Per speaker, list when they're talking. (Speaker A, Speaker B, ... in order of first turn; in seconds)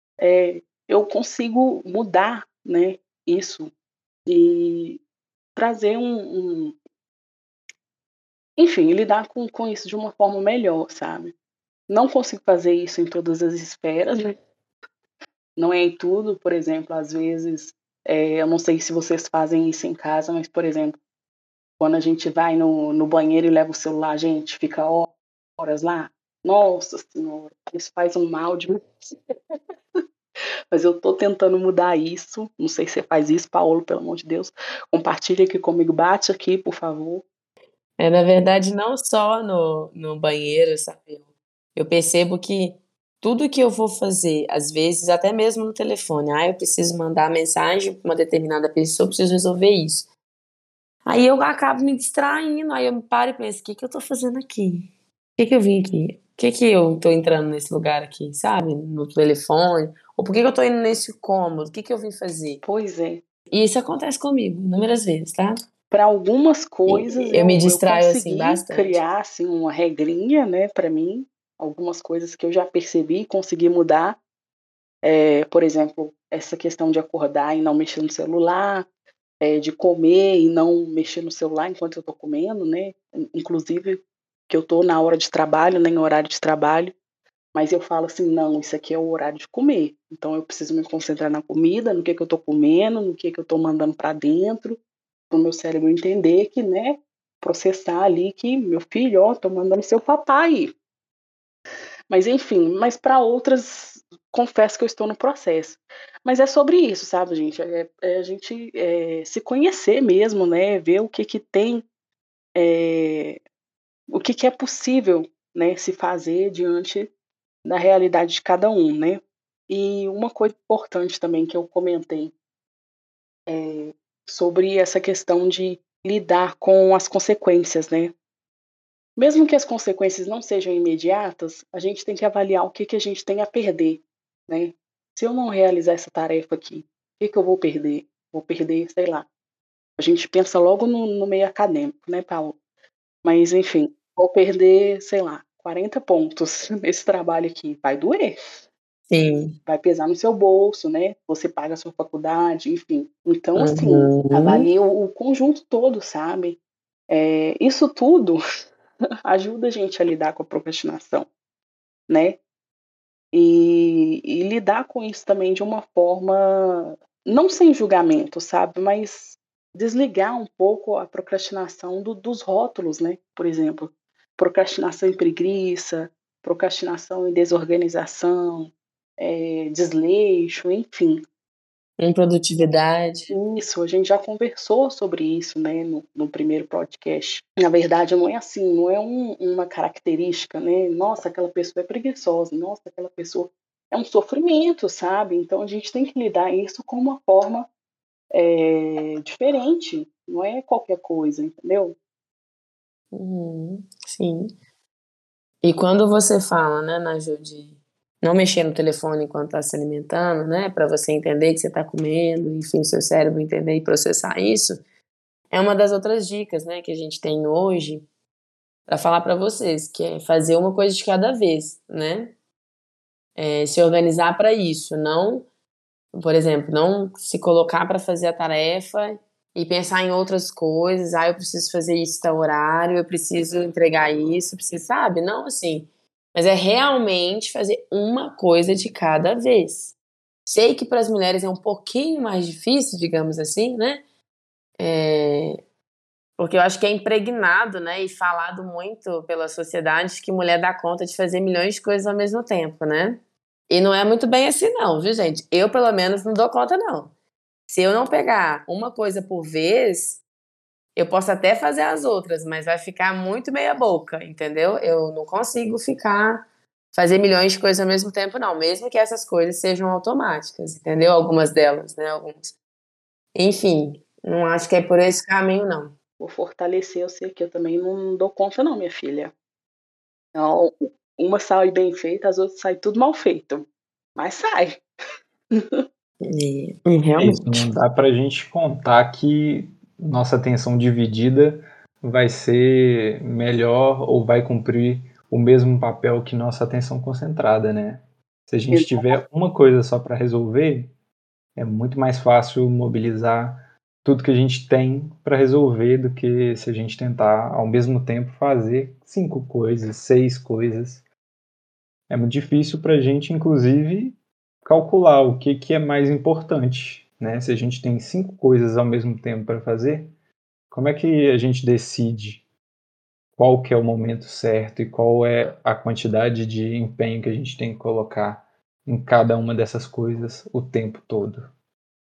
Speaker A: 0.2-3.7, 4.3-5.0, 5.6-6.8, 8.6-11.3, 11.9-14.3, 15.6-21.0, 21.8-29.6, 30.7-37.2, 62.6-63.2, 65.9-74.2, 75.0-78.9, 79.4-86.9, 87.5-94.8, 95.3-100.7, 102.1-111.8, 112.6-113.4, 114.1-117.1, 117.7-122.3, 123.5-128.1, 129.2-139.3, 140.0-142.6, 143.2-148.4, 149.7-156.6, 157.1-158.4, 159.2-161.3, 162.1-162.4, 163.3-181.2, 183.3-197.7, 198.3-201.9, 276.2-279.3, 280.4-284.8, 285.5-285.8, 298.7-299.2
Speaker B: 38.0-50.1, 51.1-62.6, 63.5-65.6, 66.9-69.0, 149.1-149.6, 153.6-154.7, 182.0-183.3, 203.1-204.5, 205.6-214.8, 215.5-218.1, 218.9-222.3, 223.4-225.5, 226.1-239.9, 240.5-244.0, 244.8-245.6, 246.4-257.1, 257.7-260.2, 261.0-272.6, 273.3-275.9, 286.2-287.7
Speaker C: 287.2-300.9, 301.6-311.0, 312.1-320.1, 320.7-322.4, 323.4-331.5